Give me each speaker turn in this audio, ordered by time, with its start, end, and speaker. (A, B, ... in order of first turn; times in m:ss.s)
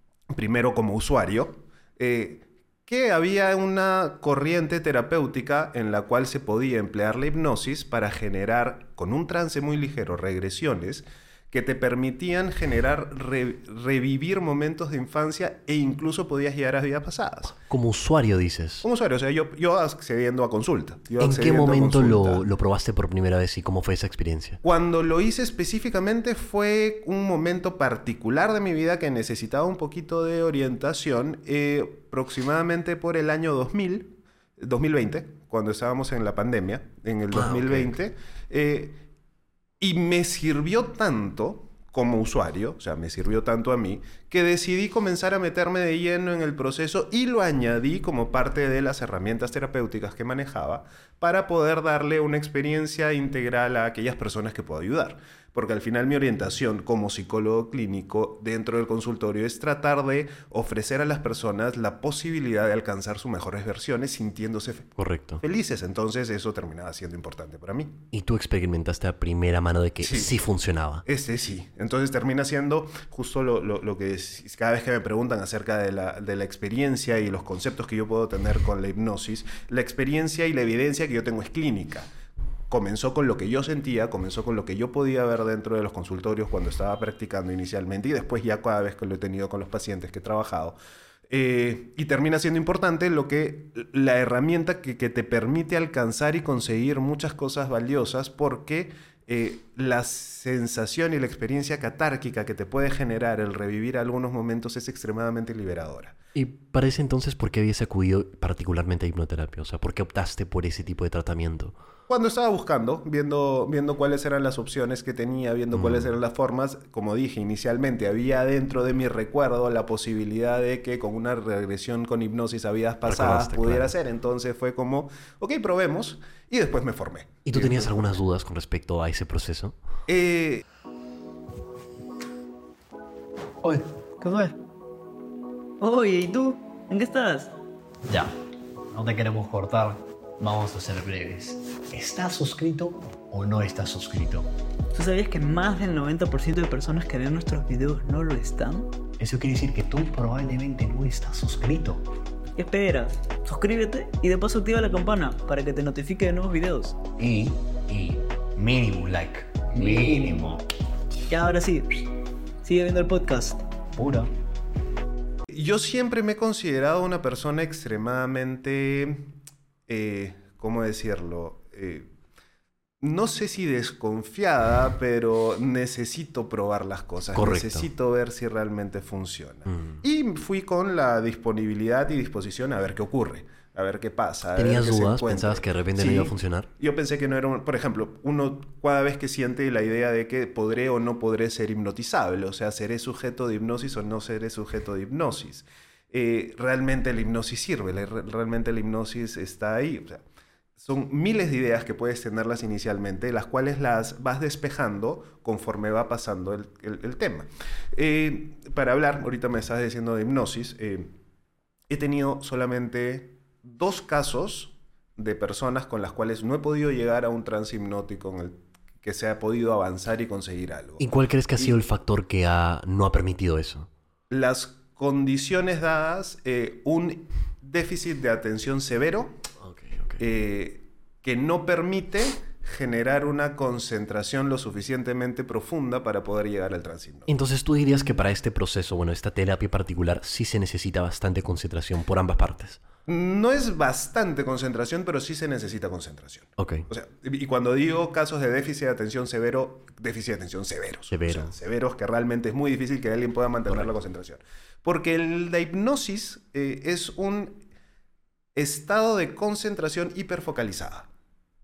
0:00.3-0:17.6 A
0:17.7-0:18.8 B
0:18.8-0:22.5 A
0:21.2-0:24.6 B
0:24.6-0:39.0 A
0:37.3-0:37.9 B
0:39.8-1:08.0 A
1:05.0-1:05.4 B
1:08.1-1:11.0 B
1:10.0-1:10.3 A
1:11.0-1:22.1 A
1:22.7-1:30.8 A
1:31.3-1:46.2 A
1:46.3-1:51.8 B
1:52.1-2:08.1 A
1:55.7-1:56.1 B
2:03.0-2:03.9 B
2:07.4-2:09.8 B
2:10.1-2:10.6 A
2:13.6-2:14.5 C
2:15.8-2:17.5 C
2:18.9-2:24.5 D
2:24.9-2:28.9 C
2:29.2-2:32.0 D
2:32.5-2:37.0 C
2:37.2-2:40.6 D
2:39.8-2:40.1 C
2:41.3-2:42.1 C
2:42.6-2:43.6 C
2:43.9-2:44.3 D
2:45.5-2:49.3 A
2:49.9-2:52.1 A
2:53.0-3:20.2 A
2:57.3-2:57.9 B
2:59.7-3:00.0 B
3:04.5-3:06.7 B
3:20.8-3:31.1 A
3:31.9-3:41.8 A
3:41.0-3:43.9 B
3:44.3-3:49.4 A
3:49.6-3:50.2 B
3:50.2-3:57.3 A
3:57.3-4:02.8 B
4:03.1-4:17.6 A
4:06.6-4:06.9 B
4:11.1-4:11.5 B
4:18.5-4:21.1 A